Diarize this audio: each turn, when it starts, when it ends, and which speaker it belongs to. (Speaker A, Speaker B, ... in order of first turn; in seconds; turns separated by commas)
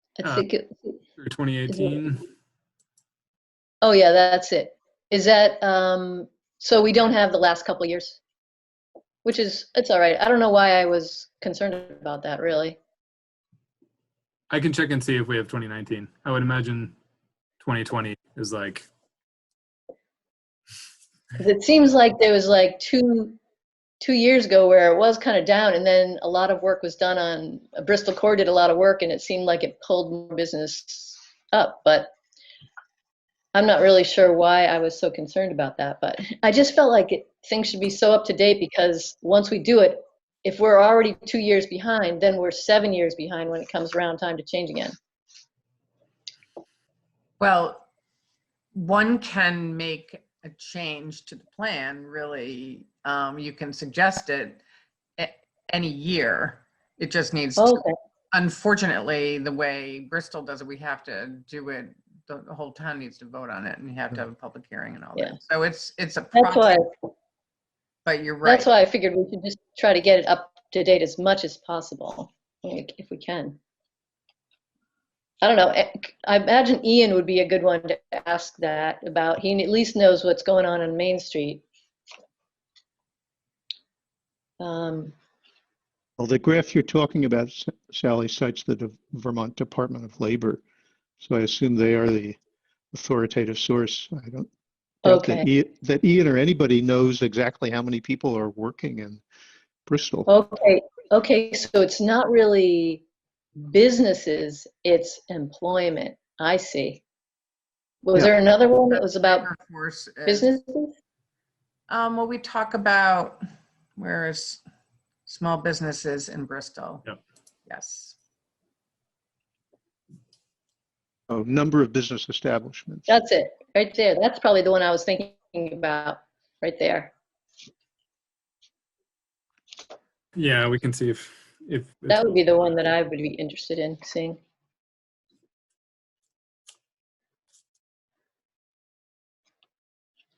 Speaker A: 0.2-1.0, Speaker B: 0.2-0.5, Speaker B: 1.2-2.3, Speaker A: 1.7-2.0, Speaker A: 3.8-8.2, Speaker A: 9.2-12.8, Speaker B: 14.5-16.9, Speaker B: 17.6-18.9, Speaker A: 21.4-23.4, Speaker A: 24.0-32.1, Speaker A: 33.5-45.0, Speaker C: 47.4-47.9, Speaker C: 48.7-54.6, Speaker C: 55.2-66.8, Speaker A: 57.6-57.9, Speaker A: 66.3-66.8, Speaker C: 68.0-68.7, Speaker A: 68.5-73.6, Speaker A: 75.4-81.6, Speaker A: 84.6-85.2, Speaker D: 86.2-90.6, Speaker D: 91.2-92.4, Speaker D: 92.9-94.5, Speaker A: 95.0-95.5, Speaker D: 95.0-99.2, Speaker D: 99.9-100.3, Speaker A: 100.3-103.0, Speaker A: 103.6-107.0, Speaker A: 108.0-109.5, Speaker C: 108.9-110.5, Speaker A: 110.3-110.9, Speaker C: 111.9-113.4, Speaker C: 114.0-114.6, Speaker C: 115.3-117.1, Speaker C: 117.7-118.2, Speaker D: 121.3-123.1, Speaker A: 123.1-127.1, Speaker B: 130.3-132.4, Speaker A: 132.1-134.4